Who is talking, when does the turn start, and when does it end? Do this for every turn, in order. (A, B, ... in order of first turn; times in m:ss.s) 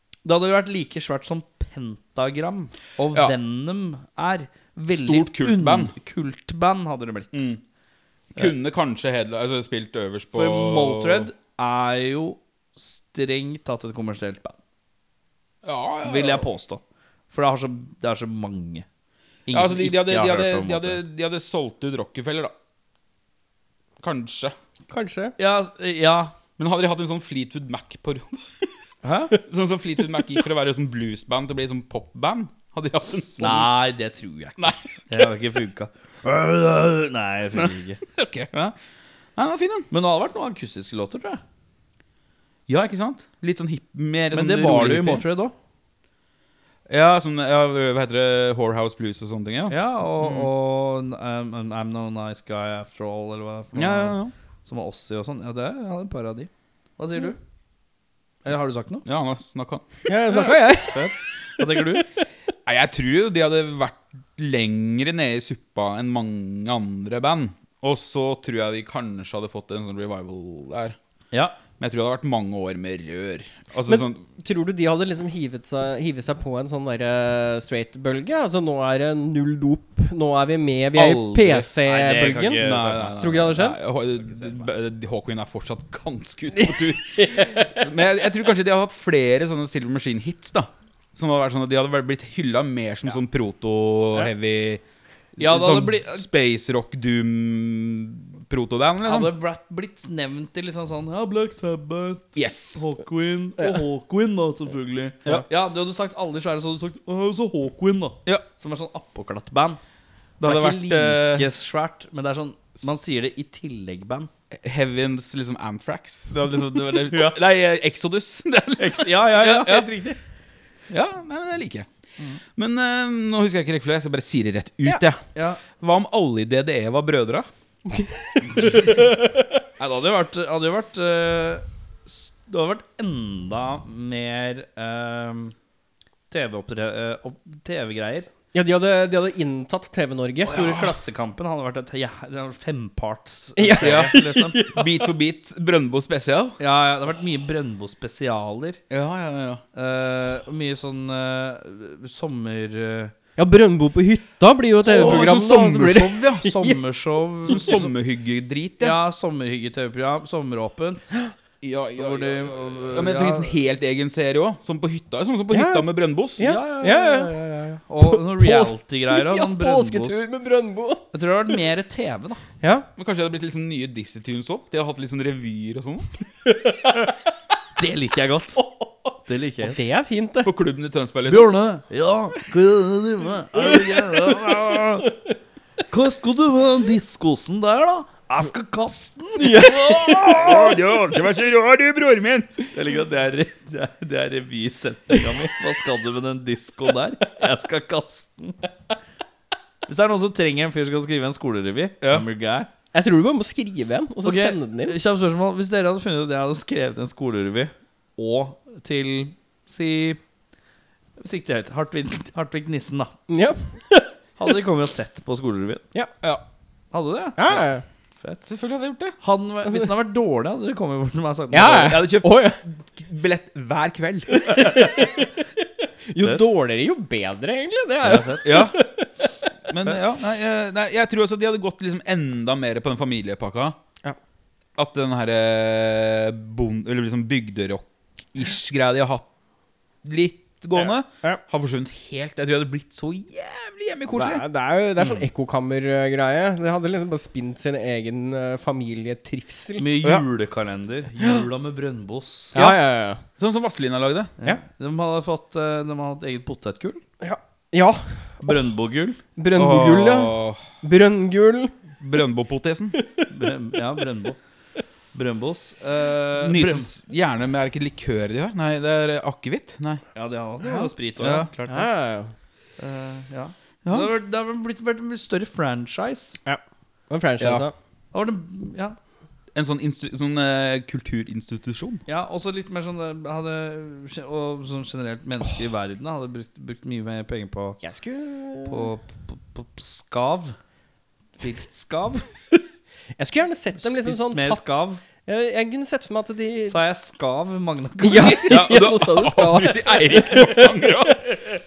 0:00.2-0:07.5 A
0:04.9-0:05.9 B
0:07.3-0:07.6 B
0:08.4-0:11.3 B
0:10.3-0:14.6 A
0:15.6-0:16.5 B
0:16.0-0:18.8 A
0:19.5-0:21.0 A
0:19.5-0:22.5 B
0:24.0-0:24.6 B
0:24.9-0:25.4 C
0:25.4-0:26.4 A
0:26.6-0:28.7 B
0:29.0-0:29.3 A
0:29.4-0:33.7 B
0:33.4-0:38.0 A
0:34.6-0:35.3 B
0:37.6-0:38.8 B
0:39.4-0:39.9 B
0:39.9-0:41.4 A
0:42.7-0:45.2 B
0:44.3-0:45.5 A
0:46.9-0:50.5 B
0:49.7-0:57.4 A
0:53.8-0:54.3 B
0:58.4-0:59.1 A
0:59.0-1:00.3 B
1:00.1-1:02.0 C
1:00.3-1:02.0 A
1:02.7-1:11.0 B
1:11.3-1:11.6 A
1:11.8-1:14.2 B
1:13.9-1:22.6 C
1:20.9-1:21.7 B
1:21.8-1:23.2 A
1:22.5-1:34.8 B
1:23.2-1:23.8 C
1:24.3-1:24.7 A
1:26.6-1:27.9 C
1:35.4-1:39.3 B
1:35.4-1:36.3 A
1:39.0-1:49.8 A
1:42.4-1:42.8 B
1:50.4-1:51.5 B
1:50.4-1:54.3 A
1:54.5-1:59.9 B
1:57.1-1:57.4 A
1:58.8-2:00.2 A
2:00.9-2:01.9 B
2:02.5-2:07.5 B
2:05.4-2:05.6 A
2:08.6-2:09.3 C
2:09.8-2:15.6 A
2:16.3-2:18.3 A
2:18.5-2:20.9 C
2:20.5-2:24.6 A
2:23.6-2:25.0 C
2:23.8-2:26.6 B
2:26.6-2:28.8 A
2:28.9-2:29.6 B
2:29.8-2:33.1 A
2:33.4-2:36.8 C
2:34.8-2:36.4 B
2:34.9-2:35.3 A
2:36.4-2:37.9 A
2:37.5-2:39.0 B
2:38.8-2:41.1 A
2:41.6-2:46.5 B
2:42.0-2:43.6 A
2:45.5-2:47.4 C
2:46.4-2:50.2 A
2:48.0-2:51.1 C
2:51.1-2:52.4 A
2:52.6-2:52.9 C
2:53.0-2:56.1 B
2:56.5-2:57.2 C
2:57.8-2:58.6 A
2:58.6-2:59.1 C
2:59.3-2:59.8 A
2:59.6-3:00.5 C
3:00.4-3:01.5 B
3:01.3-3:05.1 A
3:03.8-3:05.1 C
3:05.9-3:10.7 A
3:09.4-3:10.6 C
3:10.1-3:12.5 B
3:12.7-3:18.7 A
3:19.9-3:22.7 A
3:22.9-3:25.0 C
3:24.2-3:30.2 A
3:31.2-3:33.2 A
3:33.3-3:34.1 C
3:34.4-3:35.8 A
3:36.9-3:37.6 A
3:37.4-3:37.8 C
3:38.2-3:38.5 A
3:38.5-3:39.2 B
3:39.2-3:41.9 A
3:41.5-3:42.6 C
3:41.7-3:44.6 B
3:44.4-3:45.5 C
3:46.1-3:49.1 C
3:48.0-3:48.6 A
3:48.4-3:48.8 B
3:49.7-3:53.8 B
3:54.8-3:59.3 B
4:00.0-4:04.4 B
4:04.1-4:09.9 C
4:05.0-4:05.2 B
4:09.8-4:12.6 A
4:11.2-4:11.5 C
4:12.5-4:12.8 B
4:12.5-4:13.2 C
4:13.4-4:14.3 B
4:14.4-4:17.0 A
4:17.2-4:18.6 C
4:18.4-4:19.2 A
4:19.4-4:21.8 C
4:19.6-4:20.6 B
4:22.0-4:23.0 B
4:23.0-4:23.3 C
4:23.3-4:24.4 A
4:25.1-4:26.9 A
4:26.4-4:30.0 B
4:30.2-4:31.9 A
4:30.6-4:30.9 C
4:31.2-4:31.5 B
4:31.7-4:32.3 C
4:32.8-4:36.4 A
4:33.8-4:34.1 B
4:36.5-4:37.8 C
4:37.4-4:37.7 B
4:38.1-4:39.0 A
4:39.5-4:42.0 B
4:42.1-4:47.8 A
4:47.8-4:48.9 C
4:48.6-4:50.6 A
4:51.4-4:52.3 A
4:53.2-4:56.8 C
4:53.8-4:55.0 A
4:56.6-4:58.9 A
4:58.0-5:01.3 C
4:58.5-5:01.3 B